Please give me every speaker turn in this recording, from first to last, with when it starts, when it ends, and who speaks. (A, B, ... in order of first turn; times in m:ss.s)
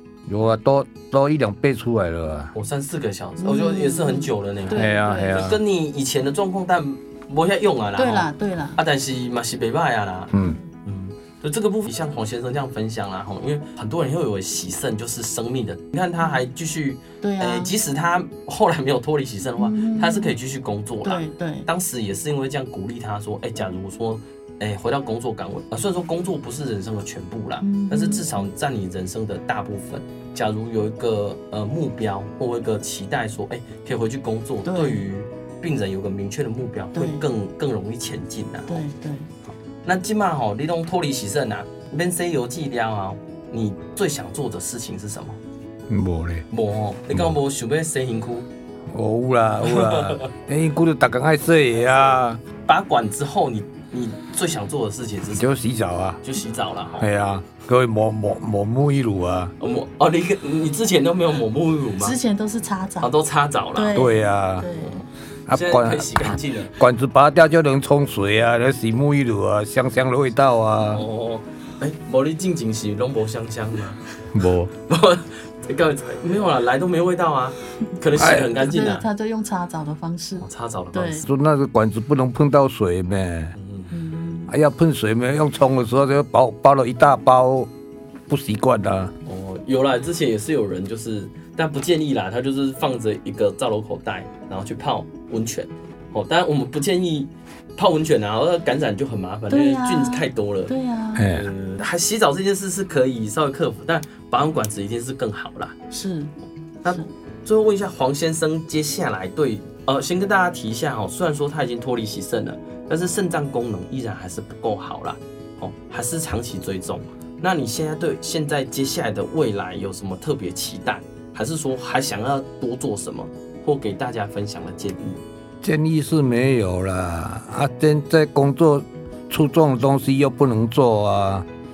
0:00.3-0:02.5 A
0:02.5-0:10.3 B
0:03.4-0:05.4 C
0:04.7-0:05.6 A
0:08.0-0:08.8 C
0:10.3-0:10.6 A
0:10.8-0:38.8 B
0:17.2-0:17.7 C
0:19.6-0:20.3 C
0:21.0-0:21.7 C
0:27.6-0:28.3 C
0:34.6-0:35.1 C
0:36.9-0:37.2 C
0:38.7-0:39.3 C
0:39.5-0:45.4 B
0:45.9-0:46.4 A
0:46.5-0:48.5 B
0:48.9-0:52.4 A
0:49.6-0:50.2 B
0:52.6-0:55.4 B
0:55.3-0:56.2 A
0:56.2-0:57.1 B
0:57.0-0:59.5 A
0:59.6-1:02.2 B
1:02.0-1:03.1 C
1:03.0-1:04.0 B
1:03.7-1:05.0 C
1:03.9-1:04.7 A
1:04.7-1:06.8 B
1:05.5-1:11.0 A
1:10.9-1:14.0 B
1:14.3-1:14.7 A
1:14.9-1:19.0 B
1:18.1-1:18.6 A
1:18.6-1:21.3 C
1:20.4-1:21.2 B
1:21.2-1:23.5 A
1:23.5-1:23.9 B
1:23.9-1:24.5 C
1:24.5-1:27.7 A
1:28.3-1:29.1 A
1:29.2-1:40.7 B
1:39.5-1:41.3 C
1:41.2-1:41.5 A
1:41.3-1:45.8 B
1:45.9-1:46.3 C
1:46.8-2:05.2 B
2:05.6-2:11.4 A